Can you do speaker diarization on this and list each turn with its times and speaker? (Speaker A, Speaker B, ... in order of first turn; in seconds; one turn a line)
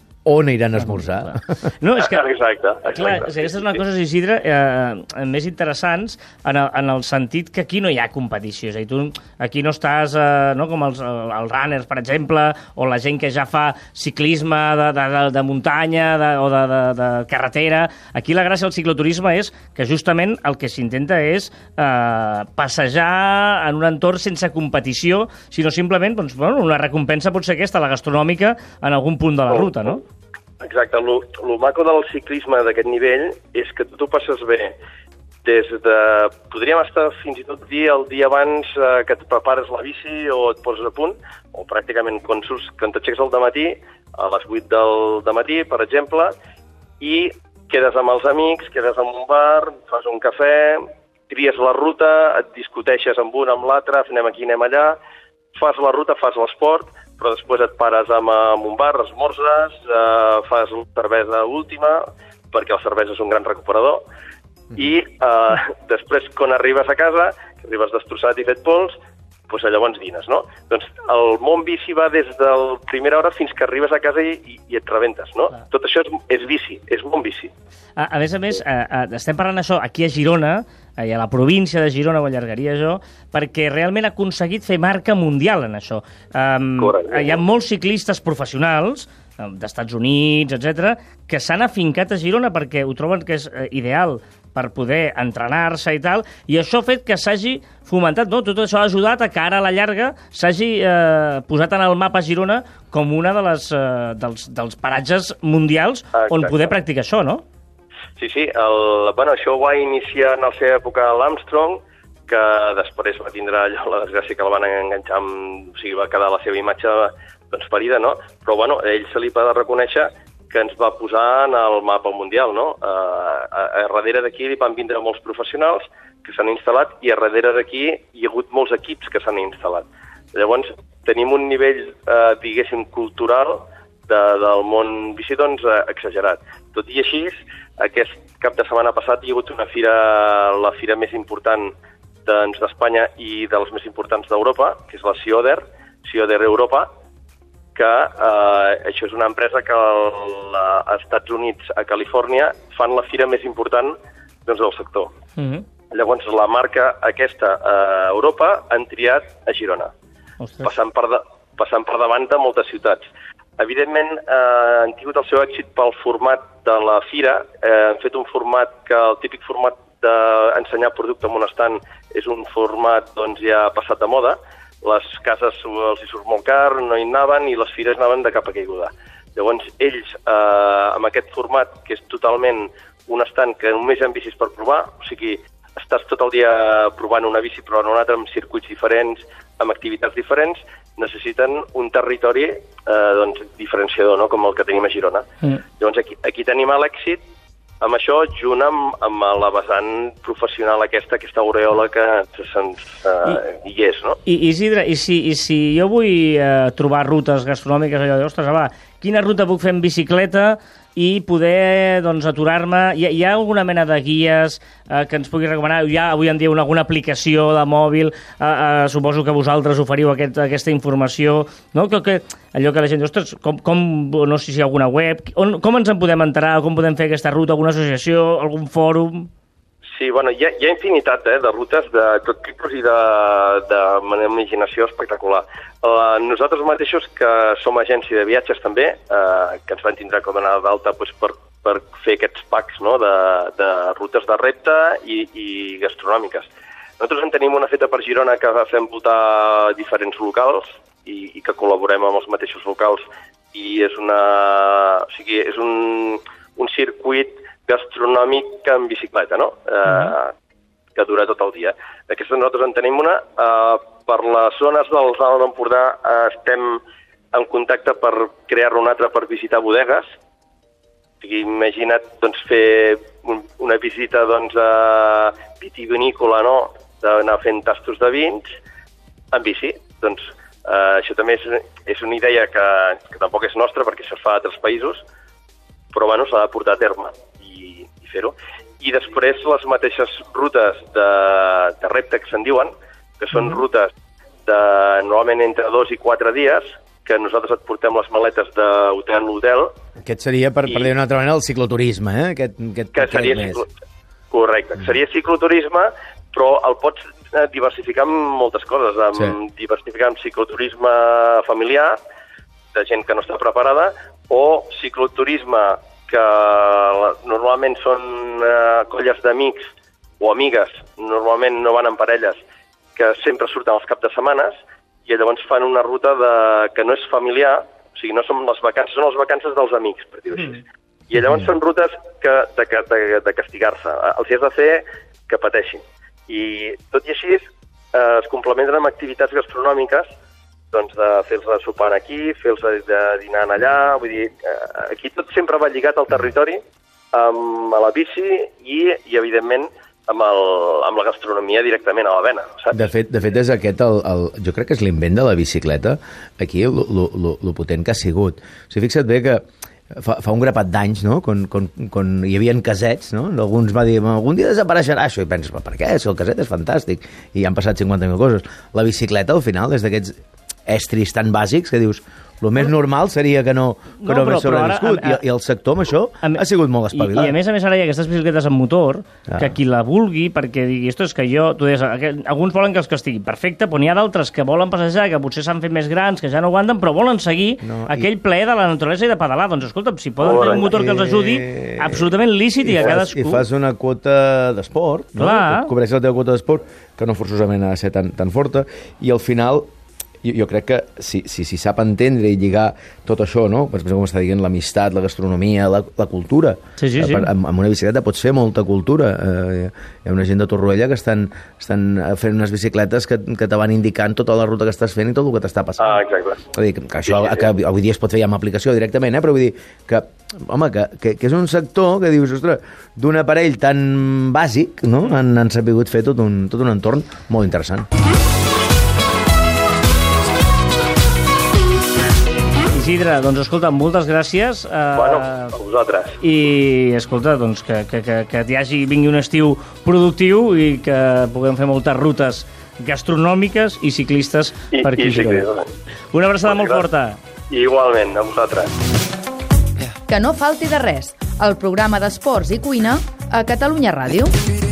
Speaker A: 0.2-1.5
Speaker B: 0.8-2.3
Speaker C: 2.0-3.8
Speaker B: 2.9-30.0
Speaker C: 29.5-30.0
Speaker C: 30.6-34.8
Speaker C: 35.4-46.3
Speaker C: 47.0-55.0
Speaker C: 55.5-64.0
Speaker C: 64.7-68.9
Speaker C: 69.5-77.5
Speaker B: 78.0-107.4
Speaker C: 86.8-87.4
Speaker C: 106.1-106.8
Speaker C: 108.2-141.7
Speaker C: 142.2-146.9
Speaker C: 147.7-155.1
Speaker B: 155.4-155.6
Speaker C: 155.9-159.9
Speaker B: 160.4-160.7
Speaker C: 160.6-163.1
Speaker C: 163.6-195.2
Speaker C: 195.8-197.2
Speaker C: 197.8-204.2
Speaker B: 204.2-229.3
Speaker C: 229.9-260.3
Speaker B: 259.9-260.1
Speaker C: 260.9-266.8
Speaker C: 267.3-270.1
Speaker C: 271.2-278.6
Speaker C: 279.3-285.0
Speaker C: 285.9-293.9
Speaker B: 293.3-293.6
Speaker C: 294.4-299.7
Speaker A: 300.0-303.6
Speaker C: 302.9-303.7
Speaker C: 304.3-312.0
Speaker C: 312.7-322.4
Speaker C: 322.9-340.1
Speaker C: 340.7-346.6
Speaker C: 347.1-352.8
Speaker A: 352.7-359.4
Speaker A: 359.9-370.1
Speaker A: 370.7-377.4
Speaker B: 374.0-375.2
Speaker B: 376.2-393.4
Speaker A: 387.6-388.1
Speaker C: 390.2-390.7
Speaker A: 390.6-392.1
Speaker A: 392.6-399.7
Speaker B: 395.2-395.7
Speaker A: 400.2-416.0
Speaker B: 406.8-407.3
Speaker C: 415.8-416.4
Speaker A: 416.5-427.9
Speaker C: 417.1-417.4
Speaker B: 432.7-435.5
Speaker C: 434.9-436.2
Speaker B: 436.2-445.5
Speaker C: 444.7-445.7
Speaker B: 446.1-447.2
Speaker C: 446.4-446.8
Speaker C: 447.5-448.7
Speaker D: 450.1-454.3